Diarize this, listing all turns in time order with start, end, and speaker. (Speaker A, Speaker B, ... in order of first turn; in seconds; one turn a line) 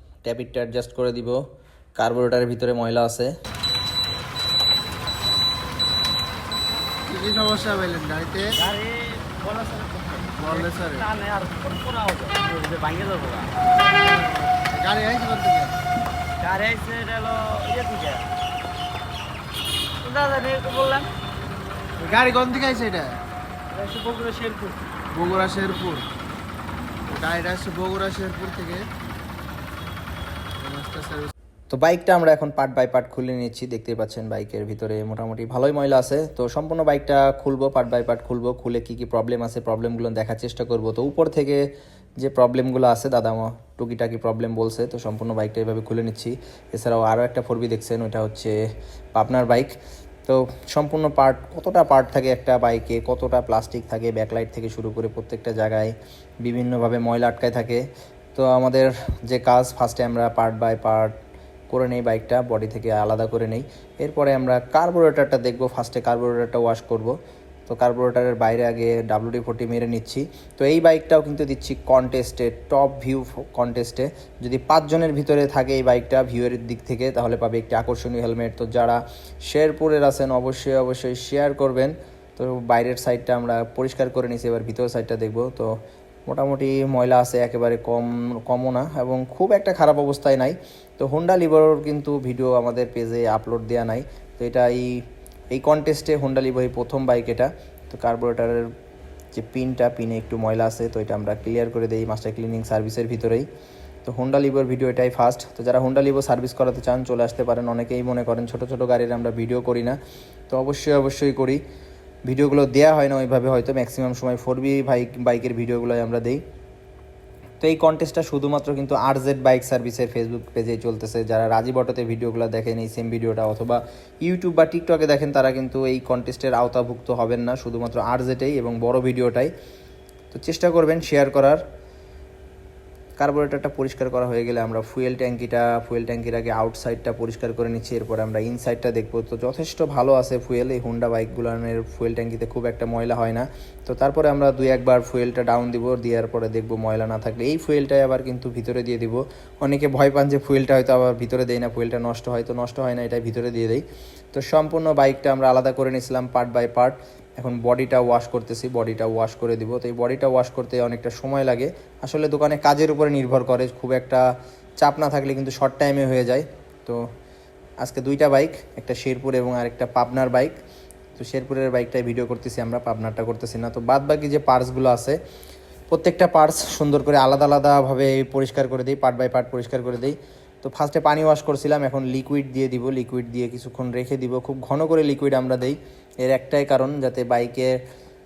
Speaker A: 0.2-1.4
Speaker A: 2.0-3.3
Speaker B: 7.0-8.6
Speaker C: 8.6-13.5
Speaker B: 10.4-11.1
Speaker B: 13.9-15.8
Speaker C: 16.4-18.3
Speaker C: 20.0-21.1
Speaker B: 22.0-23.2
Speaker C: 23.7-24.8
Speaker B: 25.1-26.1
Speaker B: 27.1-28.9
Speaker B: 30.6-31.3
Speaker A: 31.7-41.6
Speaker A: 42.2-48.5
Speaker A: 49.1-49.7
Speaker A: 50.3-61.1
Speaker A: 61.7-67.2
Speaker A: 67.7-85.7
Speaker A: 86.3-95.0
Speaker A: 95.5-98.7
Speaker A: 99.3-103.5
Speaker A: 104.0-110.0
Speaker A: 110.5-111.6
Speaker A: 112.3-116.4
Speaker A: 117.6-129.5
Speaker A: 130.3-131.6
Speaker A: 133.2-164.2
Speaker A: 164.8-167.0
Speaker A: 167.8-170.6
Speaker A: 171.2-175.2
Speaker A: 175.9-187.8